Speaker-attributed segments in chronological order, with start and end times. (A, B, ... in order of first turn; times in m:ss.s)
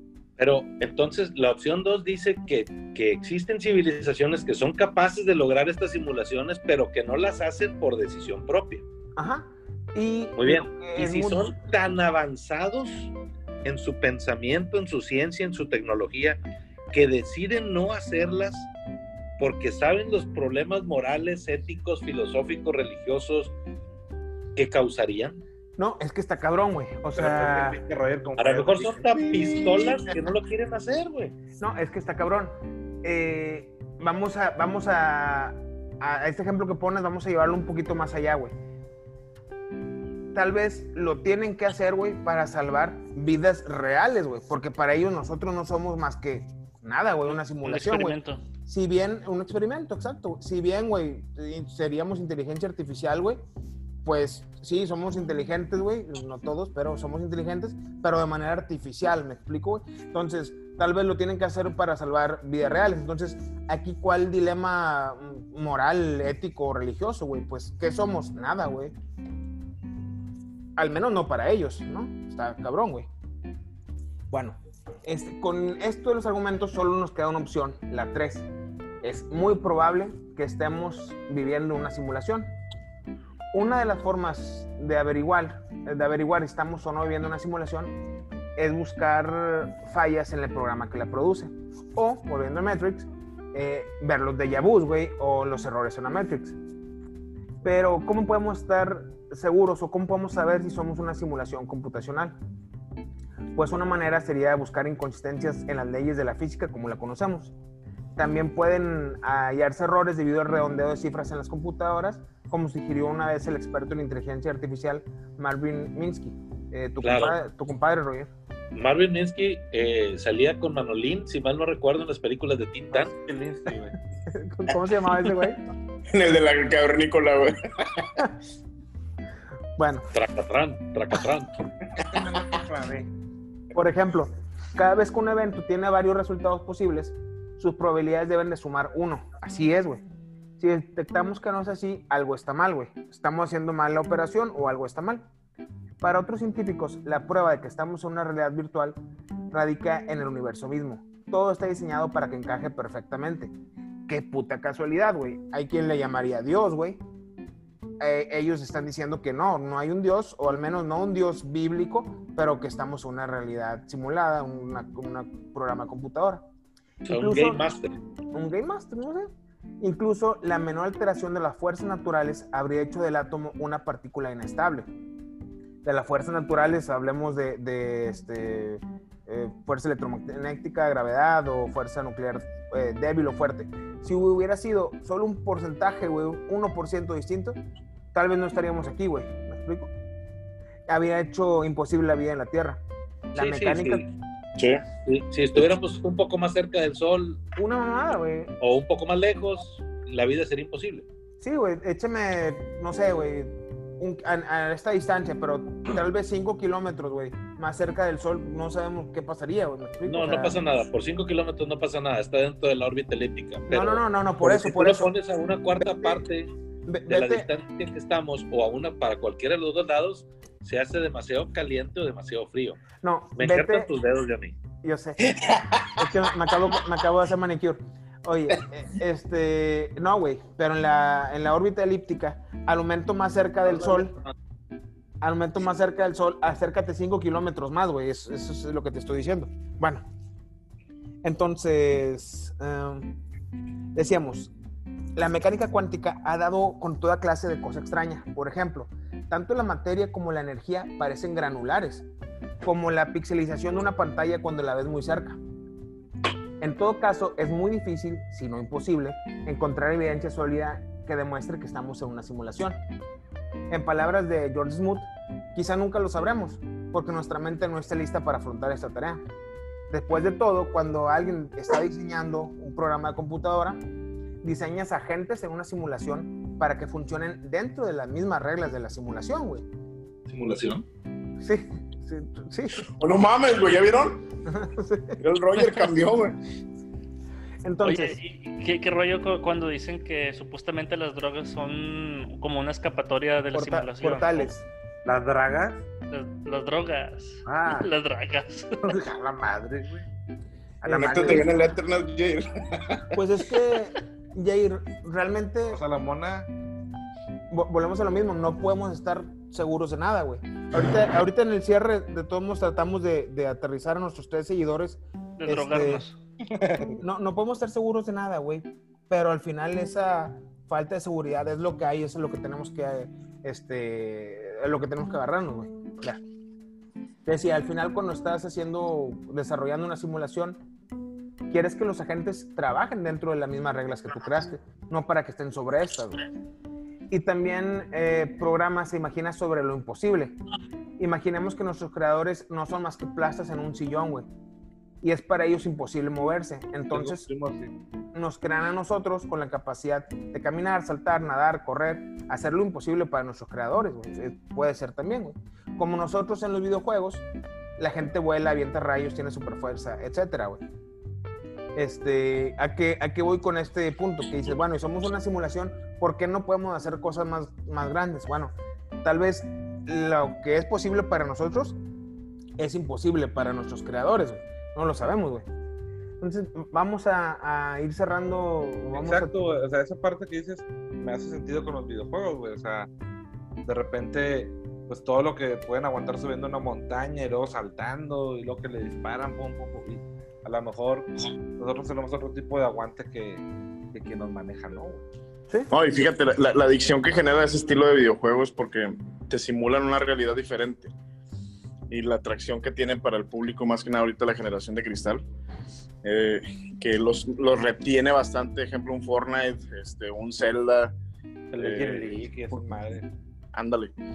0:00.4-0:08.8 A
0:09.2-0:11.5 B
0:10.4-0:13.1 A
0:13.6-0:16.4 A
0:16.9-0:18.7 A
0:19.4-0:23.6 A
0:24.6-0:25.4 A
0:25.8-0:27.8 B
0:27.2-0:30.1 C
0:28.4-0:31.3 A
0:31.6-0:38.5 B
0:40.3-0:53.4 B
0:47.6-0:48.4 D
0:54.0-1:08.9 B
1:10.8-1:13.1 B
1:14.3-1:18.5 B
1:19.0-1:22.5 B
1:23.5-1:27.9 B
1:28.6-1:36.6 B
1:37.6-1:42.4 B
1:43.6-1:47.5 B
1:48.2-1:58.3 B
1:57.0-1:57.4 A
1:58.8-2:03.2 A
2:02.9-2:04.0 C
2:04.3-2:05.6 B
2:06.1-2:08.1 E
2:09.8-2:10.1 B
2:10.1-2:11.5 A
2:12.0-2:13.1 C
2:13.7-2:20.0 B
2:20.6-2:25.2 B
2:26.0-2:29.0 B
2:29.5-2:33.5 B
2:34.1-2:37.0 B
2:38.0-2:46.4 B
2:47.1-2:48.0 A
2:47.1-2:47.6 B
2:48.3-2:49.3 B
2:49.8-2:54.9 B
2:55.8-3:07.6 B
3:08.1-3:09.9 B
3:10.9-3:12.8 B
3:13.3-3:14.0 B
3:13.4-3:14.1 A
3:14.6-3:14.8 E
3:15.0-3:17.4 A
3:17.6-3:18.5 B
3:18.6-3:21.1 A
3:21.4-3:30.6 B
3:30.1-3:36.5 A
3:33.7-3:35.1 B
3:35.8-3:36.2 B
3:36.9-3:37.5 B
3:37.1-3:42.8 A
3:43.0-3:43.9 B
3:43.4-3:44.6 A
3:44.8-3:45.3 B
3:45.9-3:54.2 B
3:53.7-3:54.3 A
3:55.2-4:00.0 B
4:01.2-4:03.2 B
4:04.0-4:04.5 B
4:05.2-4:12.1 B
4:12.6-4:15.4 B
4:16.6-4:22.8 B
4:23.7-4:29.2 B
4:29.9-4:33.8 B
4:34.4-4:39.6 B
4:40.3-4:40.8 A
4:41.4-4:42.9 B
4:43.0-4:44.2 E
4:44.5-4:45.2 B
4:45.2-4:46.4 E
4:47.6-4:48.2 B
4:47.8-4:54.5 D
4:53.5-4:54.6 B
4:55.0-4:55.8 C
4:56.1-4:58.8 D
4:57.5-4:57.9 C
4:58.8-5:00.0 C
5:00.8-5:01.5 C
5:00.8-5:01.5 B
5:00.9-5:03.1 E
5:03.1-5:05.8 B
5:05.7-5:06.5 C
5:07.5-5:16.0 B
5:15.4-5:16.2 D
5:16.5-5:17.0 C
5:17.0-5:26.2 B
5:27.3-5:30.6 B
5:31.5-5:36.2 B
5:37.1-5:40.4 B
5:41.0-5:44.3 B
5:45.0-5:47.3 B
5:46.9-5:47.7 C
5:48.1-5:57.2 B
5:57.8-6:00.6 B
6:01.8-6:11.8 B
6:12.6-6:15.5 B
6:16.2-6:19.4 B
6:18.9-6:22.9 C
6:23.6-6:35.0 C
6:35.7-6:40.9 E
6:41.9-6:45.2 E
6:46.0-6:50.9 E
6:51.5-6:53.1 C
6:51.6-6:52.2 E
6:53.5-6:53.9 E